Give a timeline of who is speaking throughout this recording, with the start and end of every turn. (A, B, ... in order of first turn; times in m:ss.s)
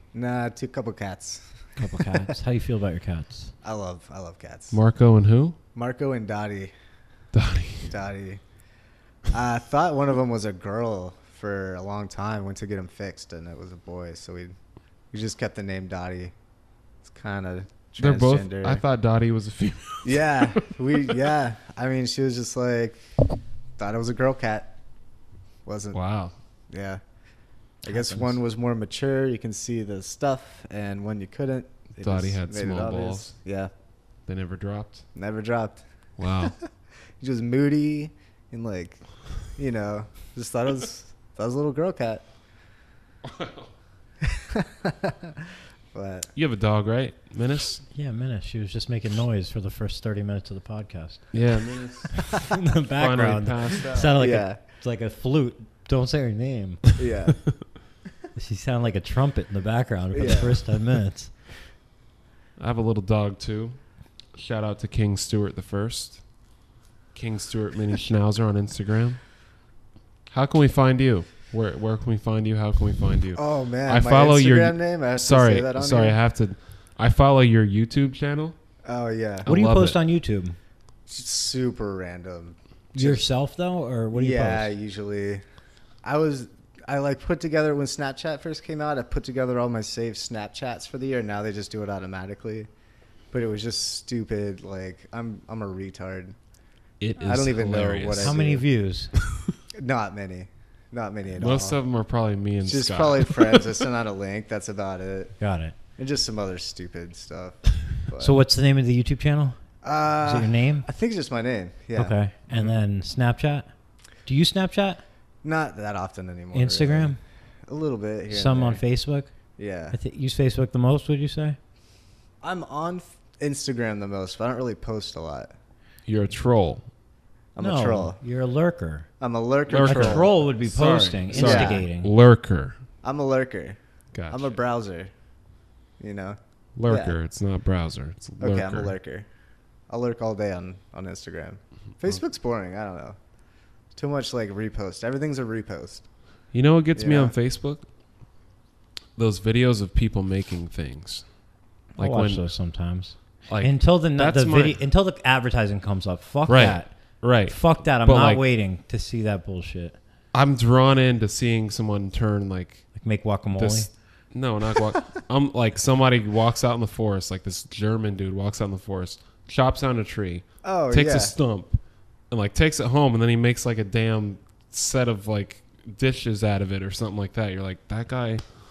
0:00.1-0:01.6 A
0:01.8-0:03.5 B
0:03.6-0:04.8 A
0:04.7-0:05.6 C
0:05.7-0:06.7 A
0:07.3-0:07.9 C
0:07.9-0:08.4 A
0:09.3-0:14.6 A
0:15.1-0:16.3 A
0:17.0-0:18.8 A
0:18.0-0:20.7 C
0:20.0-0:23.0 A
0:23.8-0:24.7 A
0:25.6-0:26.0 A
0:25.9-0:26.3 C
0:26.7-0:27.0 A
0:27.8-0:33.7 A
0:27.9-0:28.4 B
0:32.0-0:33.3 C
0:34.3-0:35.0 C
0:35.1-0:35.8 A
0:36.2-0:36.6 C
0:37.2-0:39.0 A
0:39.5-0:42.2 A
0:43.2-0:43.7 C
0:44.2-0:46.3 A
0:46.3-0:47.8 C
0:47.9-0:51.3 B
0:51.3-0:52.4 C
0:52.1-0:56.9 B
0:53.0-0:54.1 C
0:53.7-0:54.6 A
0:57.0-0:57.4 A
0:58.3-1:01.3 B
1:00.1-1:00.6 A
1:02.6-1:03.8 C
1:04.3-1:06.2 C
1:07.1-1:09.2 C
1:10.3-1:18.6 C
1:13.3-1:16.2 A
1:18.8-1:19.5 A
1:19.4-1:20.0 C
1:19.5-1:20.6 B
1:21.1-1:23.2 A
1:22.9-1:24.7 B
1:24.1-1:25.4 A
1:26.0-1:32.7 A
1:33.3-1:36.4 A
1:37.0-1:38.4 C
1:37.2-1:38.6 A
1:38.2-1:39.1 B
1:39.7-1:41.8 A
1:41.4-1:43.8 C
1:42.6-1:45.4 A
1:45.4-1:45.7 B
1:46.0-1:48.4 A
1:48.2-1:49.6 B
1:49.8-1:52.7 A
1:50.2-1:50.8 B
1:51.9-1:53.7 B
1:54.2-1:55.0 B
1:55.4-1:57.2 A
1:56.5-1:57.2 B
1:57.7-1:58.8 A
1:58.3-1:59.3 B
1:59.6-2:00.0 A
1:59.9-2:01.6 B
2:02.4-2:05.5 A
2:06.1-2:06.8 C
2:07.5-2:08.2 A
2:07.6-2:09.1 B
2:09.2-2:10.3 A
2:09.7-2:12.8 C
2:09.8-2:12.1 B
2:11.3-2:11.8 A
2:13.0-2:13.8 A
2:14.1-2:14.5 C
2:14.3-2:15.1 A
2:16.0-2:17.1 A
2:16.8-2:18.9 C
2:18.4-2:19.3 A
2:19.9-2:23.2 A
2:23.9-2:26.0 A
2:26.5-2:27.8 C
2:26.9-2:27.3 A
2:29.2-2:31.3 C
2:32.0-2:32.4 C
2:32.0-2:36.9 B
2:33.5-2:34.8 C
2:36.5-2:38.4 C
2:37.4-2:40.0 B
2:40.3-2:42.8 C
2:43.0-2:43.9 B
2:43.6-2:51.8 C
2:50.6-2:51.3 A
2:52.3-2:58.4 C